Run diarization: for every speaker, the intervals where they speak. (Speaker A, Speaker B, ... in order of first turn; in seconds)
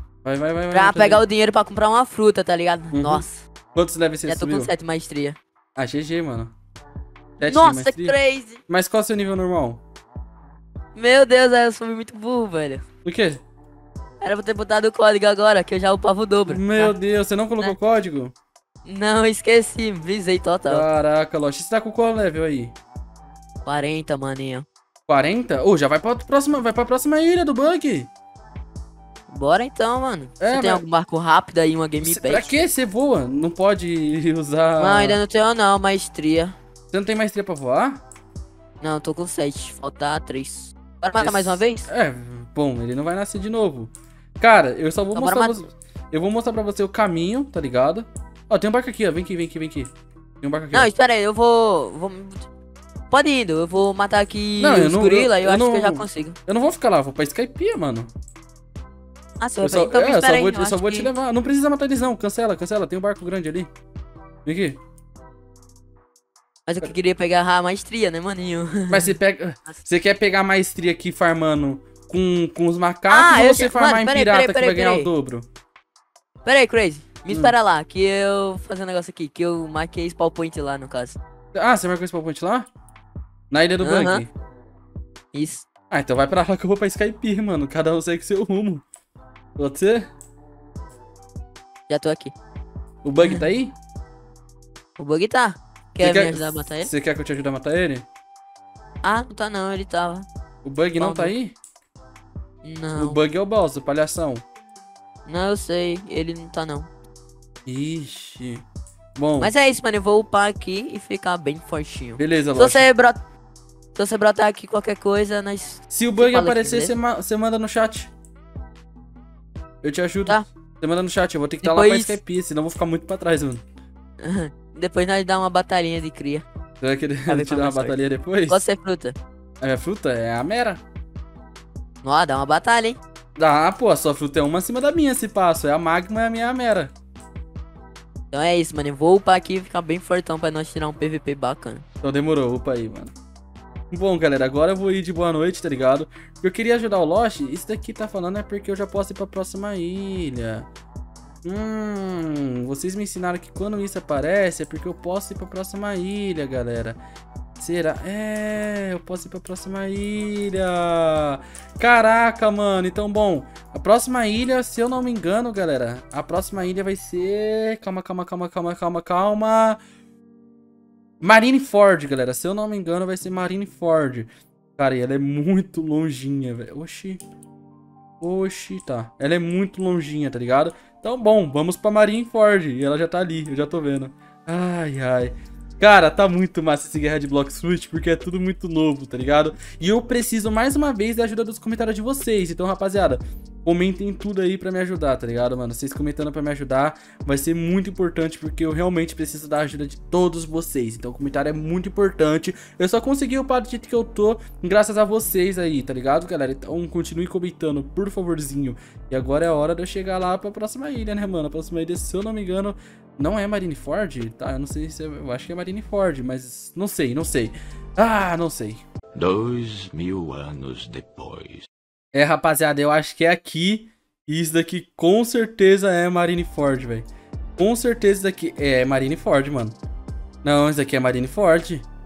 Speaker A: 0.2-1.2, 2.9-4.7, 5.8-6.5, 7.4-8.1, 8.7-9.8, 13.0-13.4, 16.5-18.3, 20.7-22.8, 25.1-28.1, 30.4-30.8, 32.0-35.2, 36.9-38.0, 41.2-50.9, 54.6-58.1, 59.6-63.7, 64.4-64.8, 68.9-75.5, 81.5-82.7, 83.5-84.3, 85.9-88.8, 89.5-90.1, 93.0-93.7, 96.0-98.0, 100.6-101.5, 103.0-104.4, 107.7-108.6, 109.2-109.5, 112.2-112.9, 115.9-118.1, 119.8-123.6, 126.8-128.6, 129.6-130.8, 133.4-136.9, 142.0-143.1, 143.9-150.7, 151.4-157.0, 157.6-169.8, 171.2-177.2, 178.2-218.8, 222.1-229.8, 230.4-231.9
Speaker B: 0.7-3.4, 4.2-5.4, 7.4-8.6, 10.9-12.8, 14.2-16.9, 18.8-20.9, 23.6-24.6, 29.3-32.5, 34.8-36.5, 38.8-41.9, 45.1-45.6, 50.7-52.5, 53.1-56.4, 59.4-61.1, 66.7-69.2, 73.1-75.1, 76.4-81.2, 83.8-84.2, 85.3-85.7, 91.9-92.3, 95.0-96.9, 99.0-100.3, 101.0-101.3, 102.6-103.2, 105.2-106.9, 109.4-113.2, 113.9-116.9, 121.6-122.2, 124.2-126.4, 127.3-128.0, 128.5-129.2, 132.0-133.0, 138.3-141.8
Speaker C: 219.2-221.7